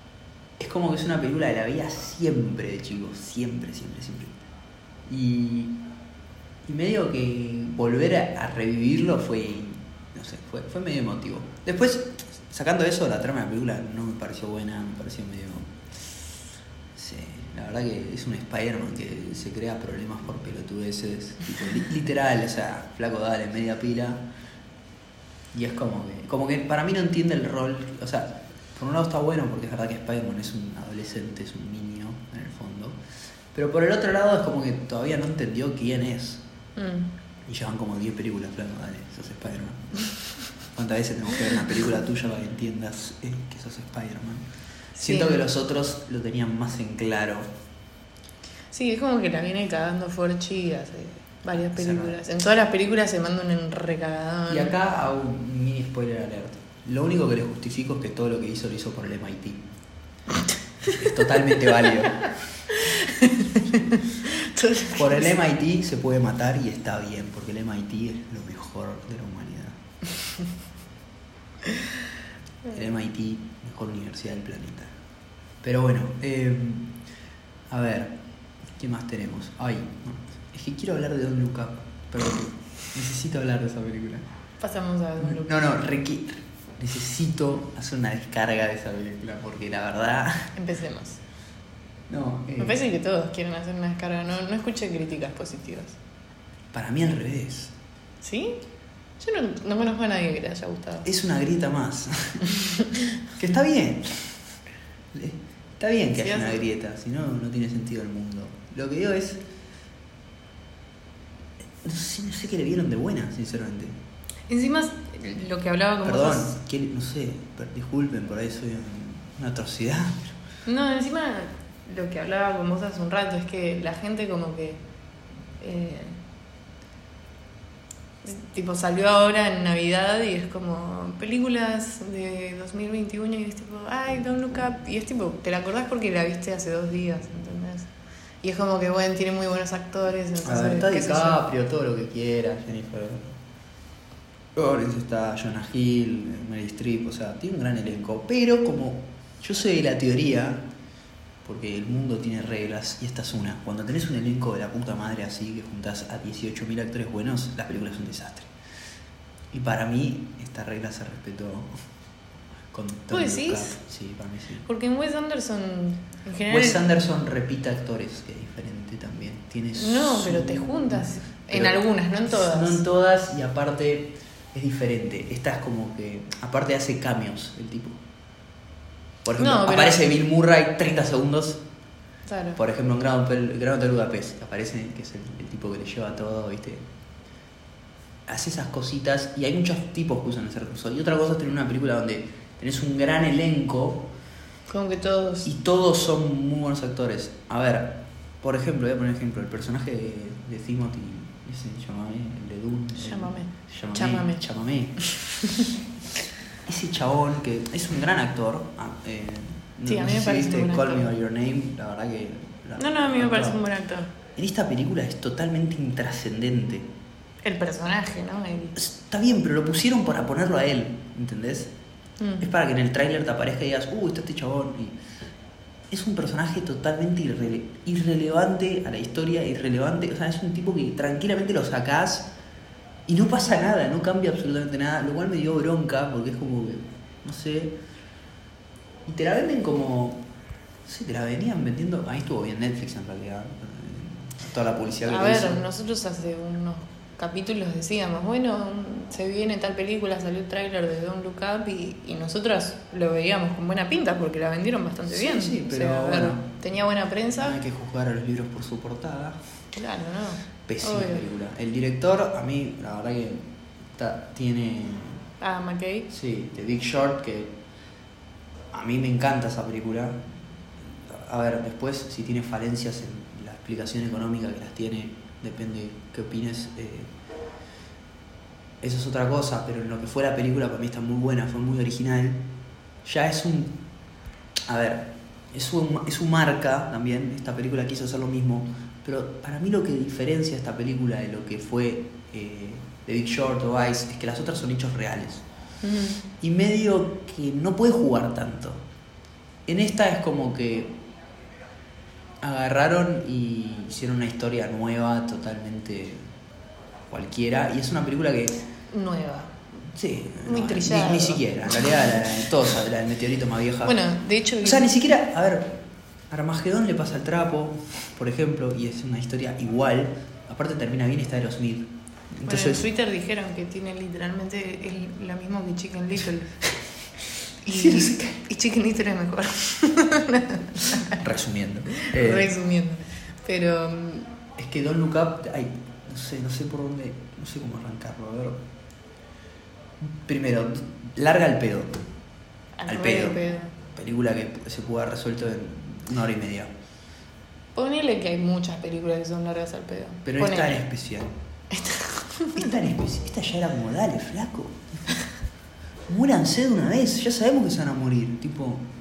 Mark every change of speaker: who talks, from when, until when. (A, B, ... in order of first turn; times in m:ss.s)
0:00.6-0:04.4 A
0:05.0-0:05.8 A
0:06.6-0:15.7 A
0:16.9-0:24.2 A
0:25.5-0:33.0 A
0:33.5-0:36.4 A
0:36.8-0:37.1 B
0:37.4-0:39.9 A
0:40.7-0:44.4 A
0:45.0-0:45.4 B
0:45.0-0:47.5 A
0:48.7-0:54.7 B
0:51.7-0:52.1 A
0:54.5-0:59.6 A
1:00.8-1:02.3 A
1:02.7-1:05.3 B
1:04.9-1:09.8 A
1:12.7-1:14.9 A
1:15.6-1:16.9 A
1:17.7-1:18.1 A
1:18.8-1:24.2 A
1:24.6-1:25.7 B
1:25.2-1:30.5 A
1:30.5-1:31.2 B
1:32.1-1:32.8 A
1:32.6-1:36.0 B
1:36.7-1:37.7 A
1:38.2-1:38.6 B
1:39.2-1:41.1 B
1:41.0-1:42.4 A
1:42.5-1:43.2 B
1:43.4-1:44.4 A
1:45.1-1:49.4 A
1:46.1-1:46.6 B
1:51.8-1:54.0 A
1:54.5-1:56.6 B
1:56.0-2:00.4 A
2:00.6-2:04.8 B
2:05.6-2:06.2 B
2:08.2-2:17.9 B
2:18.4-2:21.4 B
2:20.4-2:23.3 A
2:24.5-2:30.6 A
2:31.4-2:38.5 A
2:39.5-2:41.7 A
2:42.7-2:44.6 A
2:43.1-2:43.8 B
2:44.6-2:46.8 B
2:46.5-2:58.0 A
2:49.8-2:52.8 B
2:59.2-3:01.6 A
2:59.4-3:00.1 B
3:02.3-3:02.6 B
3:02.6-3:06.8 A
3:08.2-3:14.0 A
3:14.7-3:15.5 B
3:15.4-3:25.0 A
3:23.0-3:24.4 B
3:25.0-3:25.7 B
3:26.6-3:33.6 A
3:29.8-3:31.1 B
3:32.8-3:34.1 B
3:34.3-3:36.9 A
3:37.4-3:38.8 B
3:38.8-3:41.7 A
3:42.2-3:42.5 B
3:42.4-3:45.0 A
3:45.9-3:52.3 A
3:53.0-3:57.7 A
3:59.0-4:00.2 A
4:00.8-4:05.6 A
4:05.0-4:17.6 B
4:15.1-4:16.4 A
4:17.4-4:19.4 A
4:19.7-4:21.2 B
4:20.7-4:25.2 A
4:25.4-4:26.1 B
4:26.1-4:27.5 A
4:28.7-4:30.3 A
4:30.9-4:37.1 A
4:38.8-4:42.4 A
4:43.0-4:43.8 A
4:44.7-4:55.4 A
4:55.8-4:56.2 B
4:56.4-4:58.8 A
4:59.6-5:00.9 A
5:02.4-5:06.2 A
5:07.1-5:08.6 A
5:08.9-5:09.5 B
5:09.9-5:14.0 A
5:10.4-5:12.2 B
5:13.8-5:14.9 B
5:14.6-5:15.8 A
5:16.3-5:22.8 A
5:22.4-5:26.5 B
5:27.6-5:31.2 B
5:27.7-5:28.4 A
5:31.0-5:32.5 A
5:31.9-5:34.3 B
5:34.6-5:38.6 A
5:40.0-5:42.0 A
5:42.8-5:43.8 B
5:42.9-5:43.4 A
5:43.9-5:46.7 A
5:47.7-5:50.8 B
5:50.2-5:51.3 A
5:51.7-5:52.7 B
5:52.5-5:55.2 A
5:56.1-5:58.8 A